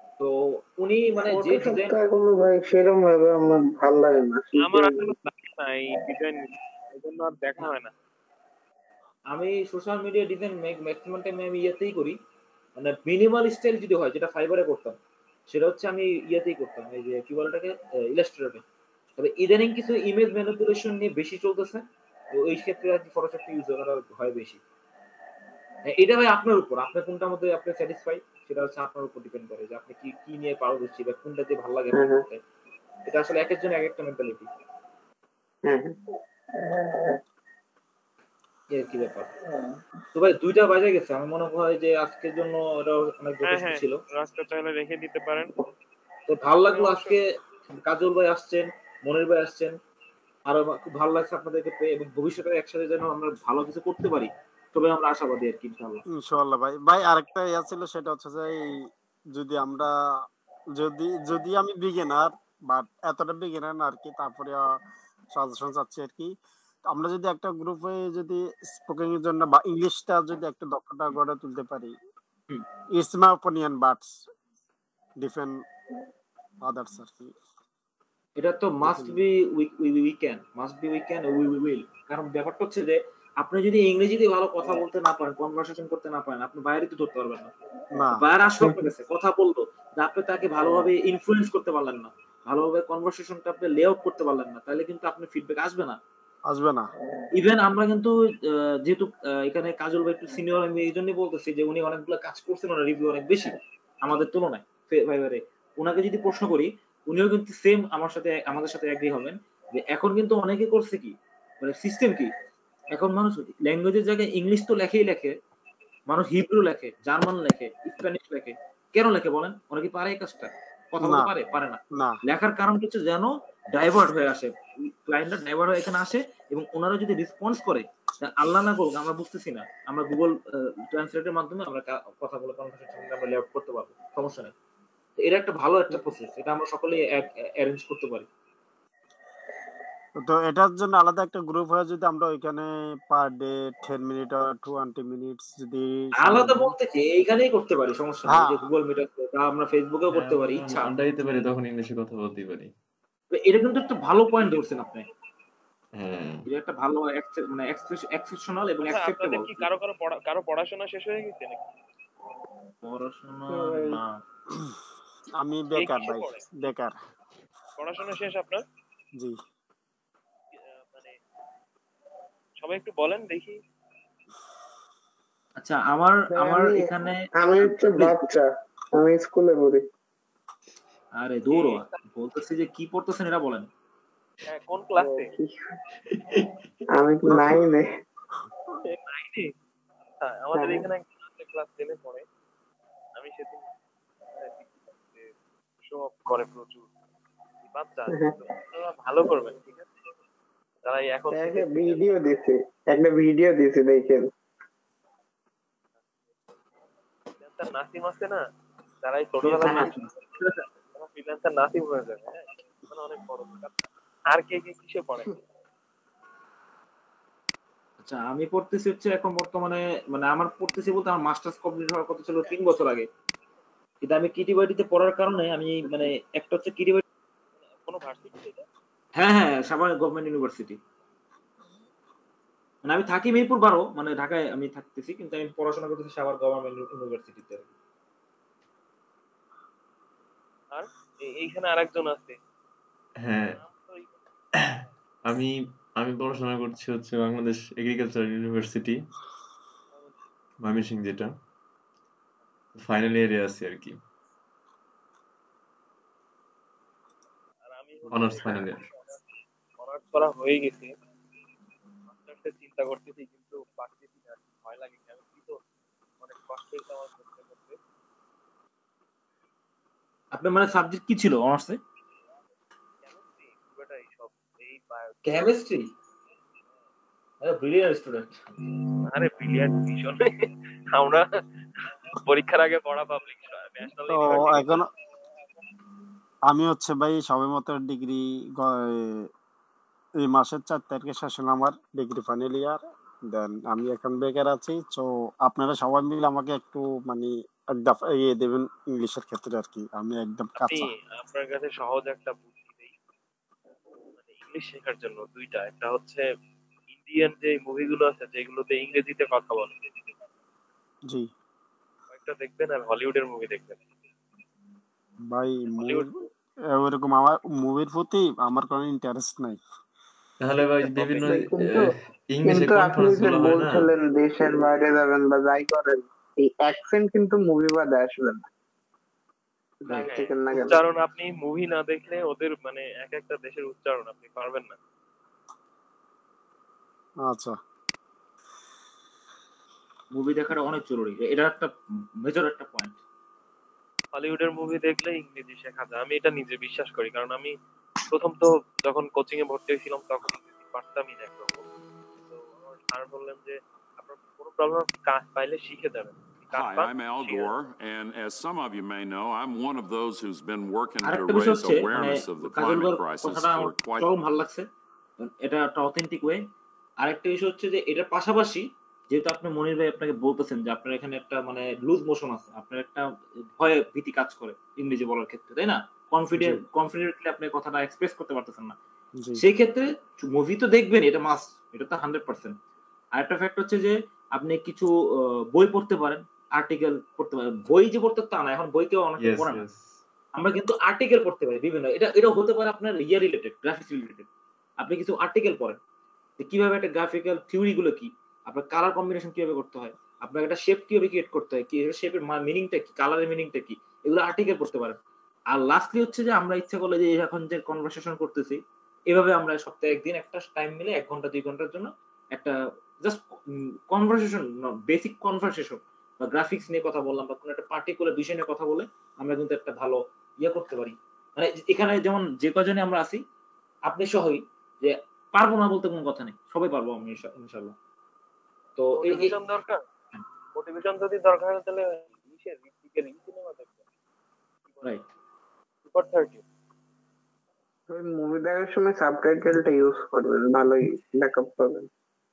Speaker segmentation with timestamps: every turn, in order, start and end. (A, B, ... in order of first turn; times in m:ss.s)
0:00.2-0:01.9 A
0:01.3-0:05.2 B
0:04.6-0:07.9 C
0:09.3-0:12.2 A
0:12.8-0:15.0 A
0:15.5-0:18.6 A
0:19.2-0:24.6 A
0:25.8-0:32.4 A
0:31.9-0:32.2 B
0:33.0-0:34.5 A
0:35.6-0:36.0 B
0:36.6-0:37.2 B
0:38.7-0:39.3 A
0:40.1-0:44.0 A
0:43.4-0:45.5 C
0:46.3-0:49.8 A
0:46.7-0:47.2 C
0:50.5-0:56.0 A
0:56.1-0:58.7 D
0:59.3-0:59.9 D
1:00.7-1:04.6 D
1:05.3-1:06.3 D
1:06.9-1:11.9 D
1:13.0-1:14.2 D
1:15.2-1:15.6 D
1:16.6-1:17.3 D
1:18.4-1:27.5 A
1:18.8-1:19.2 D
1:27.9-1:28.2 D
1:28.1-1:36.0 A
1:28.6-1:28.9 B
1:36.5-1:36.9 D
1:37.3-1:52.3 A
1:52.9-1:55.3 A
1:56.1-2:14.5 A
2:01.0-2:01.3 D
2:01.9-2:02.2 D
2:15.2-2:18.3 A
2:20.2-2:26.7 D
2:26.2-2:30.9 A
2:28.3-2:28.7 D
2:30.1-2:32.7 E
2:33.3-2:35.0 A
2:36.0-2:36.5 E
2:36.4-2:39.6 A
2:38.8-2:41.7 C
2:42.8-2:44.1 A
2:43.5-2:44.0 B
2:45.4-2:47.0 D
2:45.7-2:46.4 C
2:47.8-2:48.6 C
2:50.8-2:51.2 C
2:52.6-2:53.6 C
2:55.6-2:58.3 A
2:56.3-2:59.8 B
3:01.1-3:03.7 A
3:01.5-3:01.9 C
3:04.5-3:05.3 C
3:05.0-3:05.8 B
3:06.1-3:06.6 E
3:06.9-3:07.9 B
3:08.8-3:09.5 C
3:10.2-3:12.2 C
3:10.6-3:10.8 B
3:13.2-3:13.6 C
3:14.3-3:16.9 C
3:17.6-3:19.9 C
3:18.1-3:18.4 B
3:20.8-3:22.3 C
3:21.3-3:24.3 B
3:27.4-3:28.4 C
3:29.0-3:30.1 C
3:29.4-3:30.6 A
3:30.8-3:35.4 C
3:38.0-3:43.1 A
3:44.0-3:47.0 A
3:47.8-3:48.7 C
3:49.2-3:50.8 A
3:52.8-3:57.7 A
4:00.7-4:02.4 C
4:03.2-4:03.6 E
4:03.5-4:04.1 C
4:05.3-4:09.0 E
4:10.6-4:11.3 E
4:12.8-4:14.0 E
4:17.7-4:19.2 C
4:18.1-4:18.8 E
4:19.8-4:20.9 C
4:22.1-4:25.6 C
4:26.2-4:27.8 C
4:30.3-4:31.8 A
4:33.0-4:35.5 C
4:35.2-4:35.9 A
4:37.4-4:38.5 A
4:39.1-4:41.2 C
4:41.8-4:44.9 C
4:44.1-4:44.9 D
4:46.5-4:49.3 D
4:50.2-5:00.9 D
5:00.6-5:02.9 C
5:04.2-5:06.2 C
5:07.0-5:09.8 C
5:12.1-5:13.8 C
5:15.2-5:16.1 D
5:15.7-5:16.1 C
5:16.7-5:19.6 D
5:20.4-5:23.9 E
5:21.0-5:21.3 A
5:21.2-5:21.9 B
5:22.4-5:28.5 B
5:29.8-5:30.8 B
5:29.9-5:30.2 A
5:30.1-5:34.8 C
5:37.2-5:37.6 D
5:40.1-5:43.0 A
5:44.1-5:47.5 C
5:48.1-5:51.6 C
5:52.2-5:57.5 C
5:56.5-6:04.1 F
6:01.0-6:04.7 A
6:05.2-6:06.4 A
6:07.0-6:13.0 A
6:13.6-6:18.8 A
6:19.4-6:22.6 A
6:23.2-6:24.9 A
6:25.5-6:29.6 A
6:29.2-6:30.0 E
6:30.3-6:34.3 A
6:34.8-6:35.8 A
6:36.4-6:45.0 A
6:45.5-6:48.6 A
6:49.1-6:53.2 A
6:53.9-7:03.2 A
7:03.9-7:07.7 A
7:08.8-7:09.3 A
7:09.0-7:09.8 C
7:10.6-7:13.8 C
7:14.7-7:15.0 C
7:15.8-7:16.4 C
7:17.9-7:21.9 B